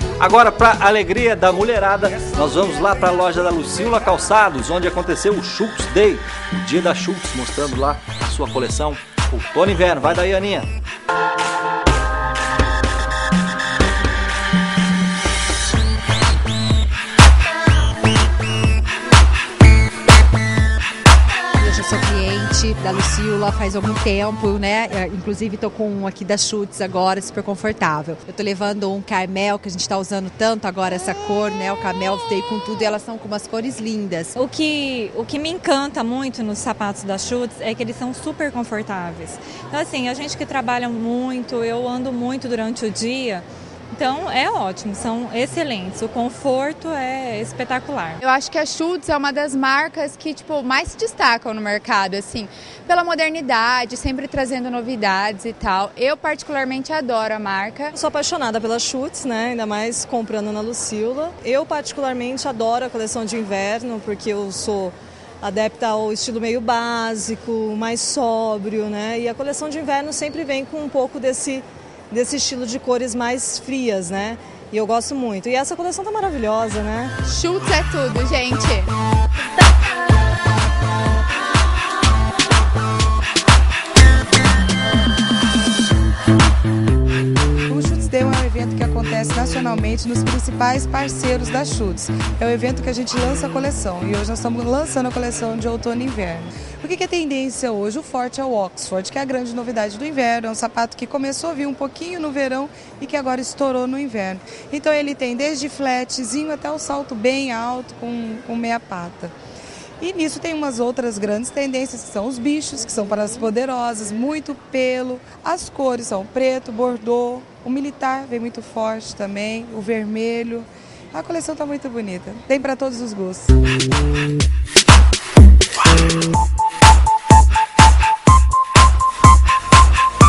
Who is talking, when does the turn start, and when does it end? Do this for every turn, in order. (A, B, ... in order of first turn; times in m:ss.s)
0:00.2-0:10.7 A
0:21.6-0:34.3 B
0:34.3-0:48.2 C
0:48.2-0:57.9 D
0:57.9-1:17.1 E
1:17.2-1:18.9 D
1:27.7-1:49.3 F
1:50.0-2:03.6 F